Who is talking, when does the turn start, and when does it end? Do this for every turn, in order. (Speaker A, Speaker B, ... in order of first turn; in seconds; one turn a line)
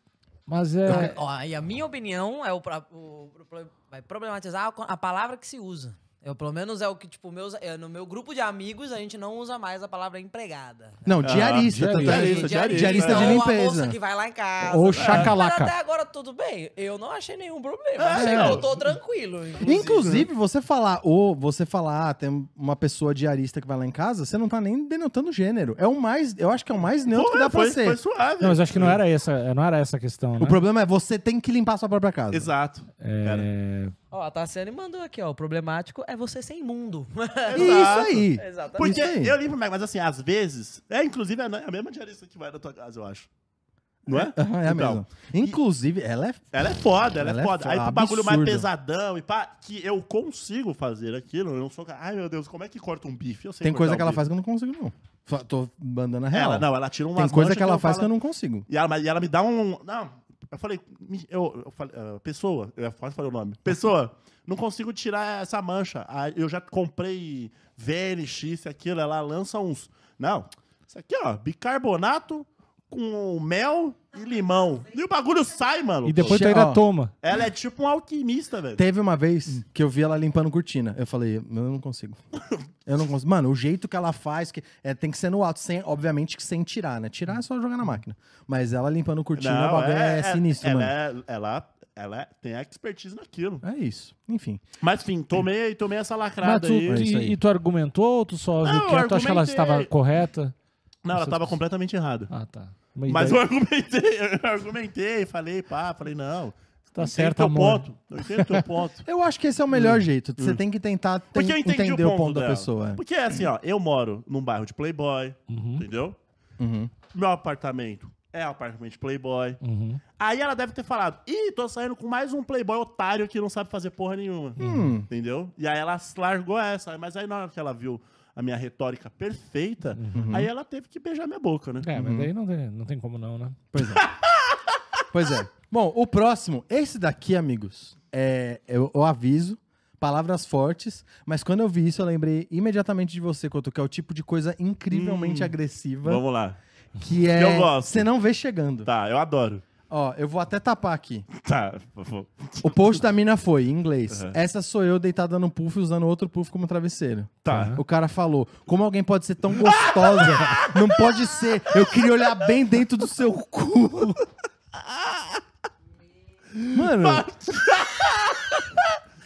Speaker A: 0.5-1.1
Speaker B: 0.9-11.0
Speaker C: 11.0-14.0
Speaker D: 11.2-13.4
Speaker A: 11.6-12.4
Speaker B: 12.0-20.1
Speaker A: 14.6-15.7
Speaker D: 14.9-15.3
Speaker D: 17.9-18.9
Speaker C: 18.1-18.6
Speaker D: 19.6-20.2
Speaker C: 19.6-28.0
Speaker D: 27.1-29.0
Speaker A: 28.4-30.6
Speaker C: 30.4-32.5
Speaker D: 32.3-33.5
Speaker A: 33.0-33.9
Speaker B: 34.1-38.9
Speaker D: 37.4-43.3
Speaker C: 37.5-39.4
Speaker D: 44.0-45.5
Speaker C: 44.1-46.5
Speaker D: 46.5-54.2
Speaker C: 47.2-48.7
Speaker C: 53.6-58.6
Speaker D: 56.3-58.1
Speaker D: 58.7-76.4
Speaker A: 76.0-77.1
Speaker C: 76.2-76.8
Speaker D: 77.2-78.8
Speaker C: 78.8-82.2
Speaker C: 82.8-90.9
Speaker D: 89.3-93.6
Speaker C: 93.6-94.6
Speaker D: 94.8-97.0
Speaker A: 96.4-100.5
Speaker C: 96.9-97.4
Speaker D: 98.6-99.9
Speaker D: 101.0-102.3
Speaker A: 101.1-101.5
Speaker A: 102.3-103.4
Speaker D: 103.1-109.0
Speaker A: 106.9-108.6
Speaker C: 109.0-113.0
Speaker D: 109.7-110.6
Speaker D: 111.3-116.2
Speaker A: 115.5-115.8
Speaker C: 116.6-116.9
Speaker D: 117.1-119.6
Speaker A: 119.6-120.0
Speaker D: 120.2-131.9
Speaker A: 124.6-125.0
Speaker C: 124.6-125.1
Speaker A: 129.9-130.2
Speaker C: 130.1-130.5
Speaker A: 131.8-133.6
Speaker C: 131.9-132.3
Speaker C: 133.7-134.1
Speaker D: 133.8-134.6
Speaker C: 135.1-146.2
Speaker D: 144.9-146.6
Speaker C: 147.0-148.9
Speaker D: 147.3-148.1
Speaker D: 148.8-149.6
Speaker C: 149.9-151.3
Speaker D: 151.3-153.0
Speaker C: 152.6-164.2
Speaker D: 154.1-154.3
Speaker D: 157.4-157.8
Speaker A: 157.5-157.8
Speaker D: 159.6-161.9
Speaker D: 164.7-165.4
Speaker D: 166.6-168.9
Speaker C: 166.7-167.2